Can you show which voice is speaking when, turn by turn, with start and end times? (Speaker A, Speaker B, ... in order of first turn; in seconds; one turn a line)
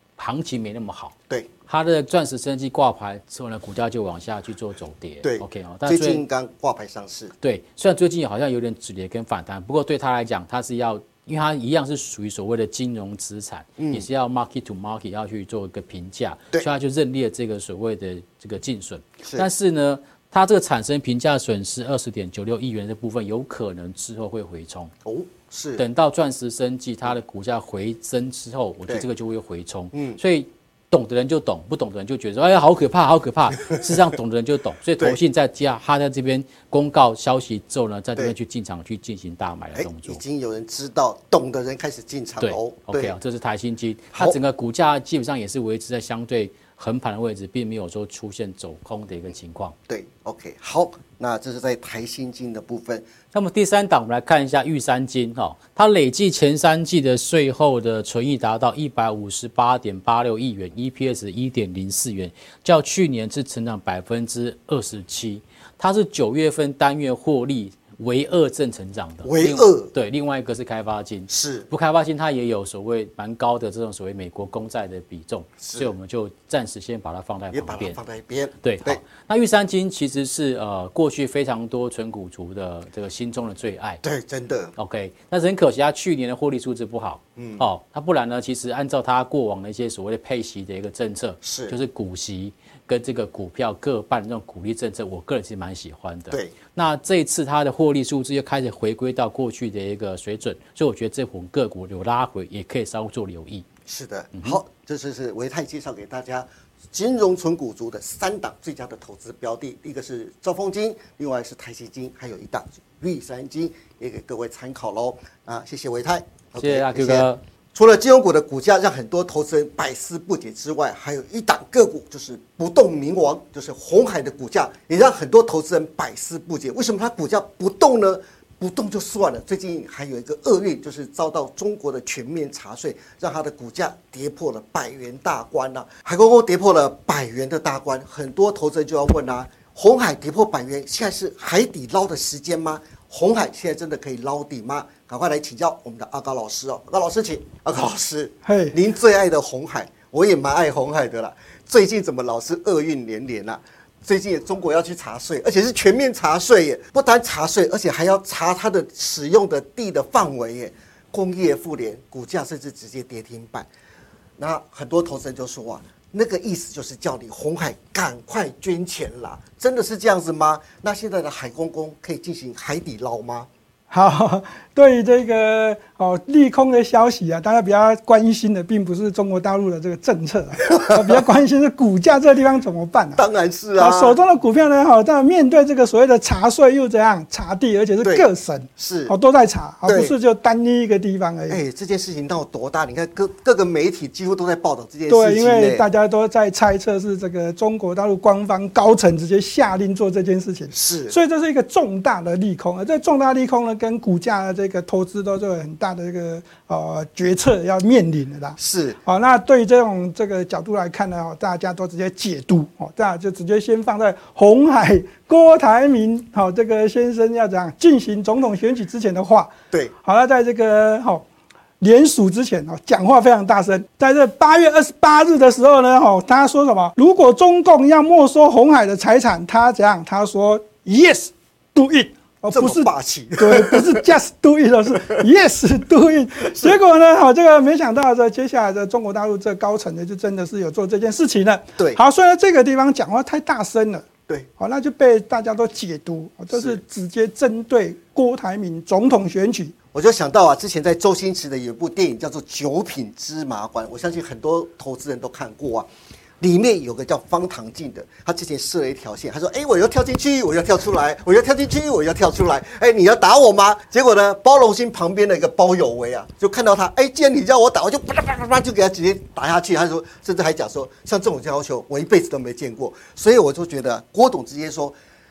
Speaker A: 0.2-1.1
Speaker A: 1.7-6.2
Speaker B: 5.2-7.3
Speaker A: 7.4-24.9
Speaker B: 13.8-14.1
Speaker B: 19.2-19.5
Speaker B: 25.0-25.8
Speaker A: 25.8-40.2
Speaker B: 29.9-30.2
Speaker B: 39.7-43.1
Speaker A: 42.4-49.7
Speaker B: 49.9-53.1
Speaker A: 53.3-78.0
Speaker B: 69.2-69.9
Speaker B: 71.3-71.7
Speaker B: 75.6-75.9
Speaker B: 77.5-79.0
Speaker A: 78.6-84.0
Speaker B: 84.0-84.7
Speaker A: 84.8-103.7
Speaker B: 87.3-87.6
Speaker B: 91.4-91.8
Speaker B: 103.8-163.7
Speaker A: 104.3-104.6
Speaker A: 116.6-117.4
Speaker C: 148.4-148.8
Speaker B: 164.4-173.5
Speaker C: 173.9-183.2
Speaker B: 180.7-181.2
Speaker B: 183.2-184.2
Speaker C: 183.8-191.6
Speaker B: 188.0-189.1
Speaker B: 189.8-190.1
Speaker B: 191.5-195.9
Speaker C: 195.1-221.2
Speaker B: 200.7-201.2
Speaker B: 208.6-209.0
Speaker C: 221.8-244.1
Speaker B: 232.5-234.1
Speaker B: 236.5-236.8
Speaker C: 244.6-249.8
Speaker B: 246.5-246.8
Speaker B: 249.9-255.9
Speaker B: 256.4-274.9